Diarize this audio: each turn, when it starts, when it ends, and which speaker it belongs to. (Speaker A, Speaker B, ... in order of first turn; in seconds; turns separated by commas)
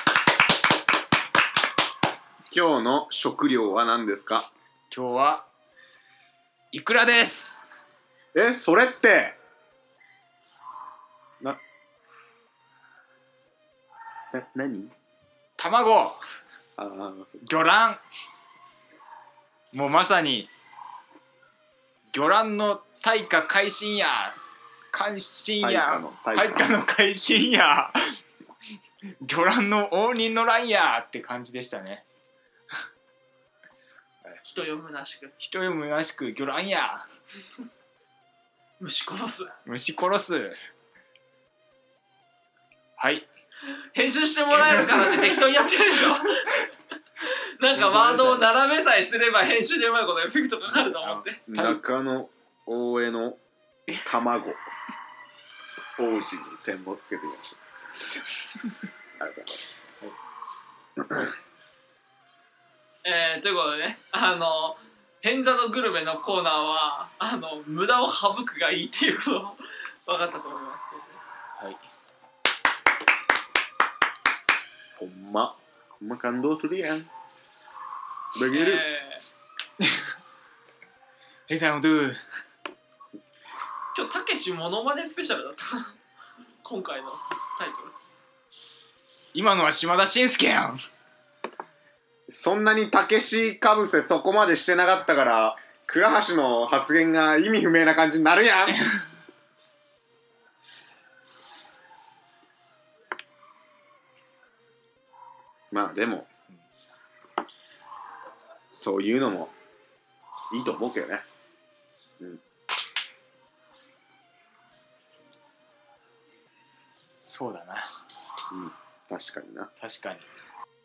Speaker A: 2.5-4.5, Speaker B: 4.9-5.5, Speaker B: 6.7-7.6, Speaker A: 8.3-9.4, Speaker A: 14.3-14.9, Speaker B: 15.6-16.2, Speaker A: 16.8-17.4, Speaker B: 17.4-18.0, Speaker B: 19.7-20.5, Speaker B: 22.1-24.4, Speaker B: 24.9-28.2, Speaker A: 25.6-26.8, Speaker B: 29.2-32.0, Speaker C: 34.4-35.4, Speaker B: 35.4-37.1, Speaker C: 38.8-39.6, Speaker B: 39.7-40.6, Speaker B: 43.0-43.3, Speaker C: 43.9-46.6, Speaker B: 44.5-45.2, Speaker C: 47.2-51.4, Speaker B: 47.7-48.5, Speaker B: 50.7-51.8, Speaker A: 51.5-53.4, Speaker A: 54.0-54.6, Speaker A: 56.0-57.6, Speaker A: 59.2-60.0, Speaker C: 63.0-71.2, Speaker A: 75.0-77.1, Speaker A: 78.3-78.8, Speaker C: 78.5-79.2, Speaker B: 81.5-82.2, Speaker C: 83.9-85.9, Speaker C: 86.6-88.0, Speaker B: 89.3-90.8, Speaker A: 92.3-98.9, Speaker A: 105.7-106.3, Speaker A: 108.8-109.5, Speaker A: 110.5-111.2, Speaker B: 117.2-117.9, Speaker A: 118.5-119.7, Speaker B: 119.8-120.3